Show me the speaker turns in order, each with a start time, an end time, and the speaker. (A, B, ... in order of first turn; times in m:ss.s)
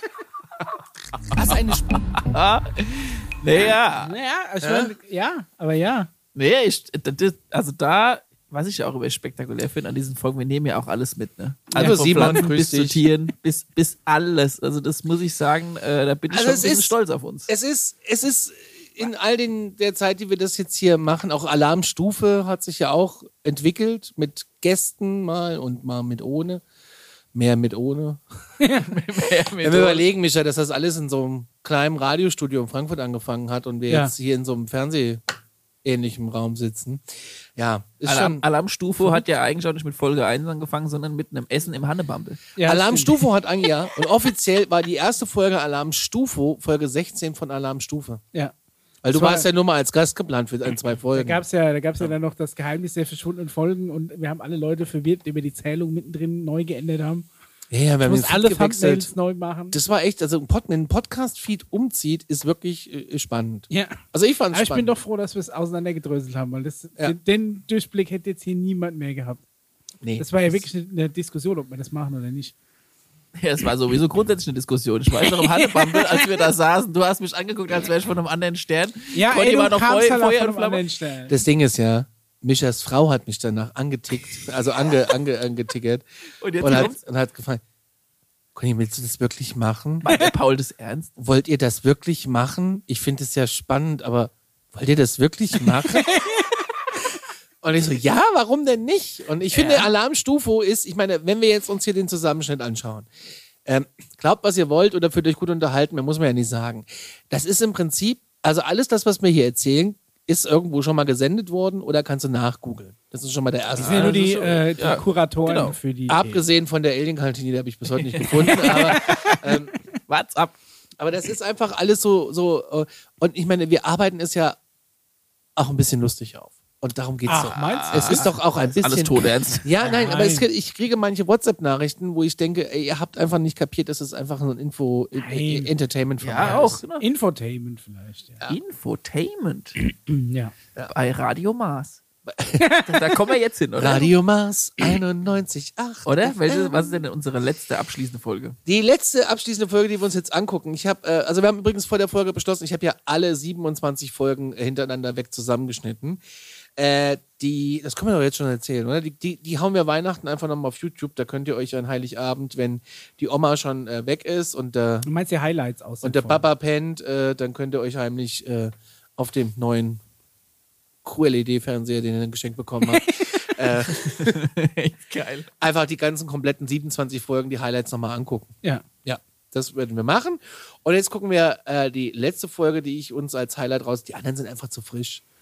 0:01.3-0:02.0 A
0:02.2-0:04.1 B
0:04.0-0:06.1 C
0:04.6-0:04.9 A
0:06.3-0:17.5 B
0:11.7-0:12.3 C
0:11.8-0:13.0 A
0:16.3-0:16.9 A
0:17.5-0:26.6 A
0:27.3-0:28.2 A
0:28.8-0:30.0 B
0:29.6-0:35.2 A
0:33.9-0:34.1 C
0:35.8-0:37.0 A
0:37.6-0:38.4 A
0:38.0-0:42.4 B
0:42.6-0:43.1 C
0:42.6-0:48.2 A
0:49.0-0:51.4 A
0:49.1-0:49.4 C
0:51.1-0:57.3 C
0:57.7-0:59.1 A
0:58.0-0:59.8 C
0:59.7-1:04.9 A
1:03.7-1:04.0 C
1:04.5-1:09.4 C
1:10.0-1:10.6 A
1:10.2-1:12.5 C
1:13.4-1:20.8 B
1:19.1-1:21.3 C
1:21.3-1:26.0 A
1:26.4-1:27.0 B
1:26.6-1:27.6 A
1:28.6-1:30.0 A
1:30.0-1:31.1 B
1:31.2-1:36.2 A
1:37.6-1:43.1 A
1:39.5-1:39.9 B
1:43.6-1:54.2 A
1:53.8-1:55.8 B
1:53.8-1:56.4 C
1:56.1-1:59.7 A
1:58.0-1:59.4 B
2:00.1-2:00.6 B
2:01.0-2:04.6 A
2:05.6-2:16.8 A
2:07.3-2:08.3 C
2:07.6-2:09.6 B
2:09.8-2:10.4 C
2:15.2-2:15.7 C
2:16.2-2:17.0 B
2:16.4-2:18.4 C
2:18.5-2:19.8 B
2:20.0-2:20.5 C
2:20.9-2:22.0 B
2:22.3-2:22.8 A
2:22.6-2:23.0 C
2:22.8-2:24.1 B
2:23.8-2:26.7 A
2:26.0-2:28.6 B
2:28.6-2:36.2 A
2:36.8-2:45.1 A
2:45.0-2:46.4 C
2:46.0-2:50.0 A
2:51.0-2:54.4 A
2:54.0-2:55.5 B
2:55.6-3:05.2 A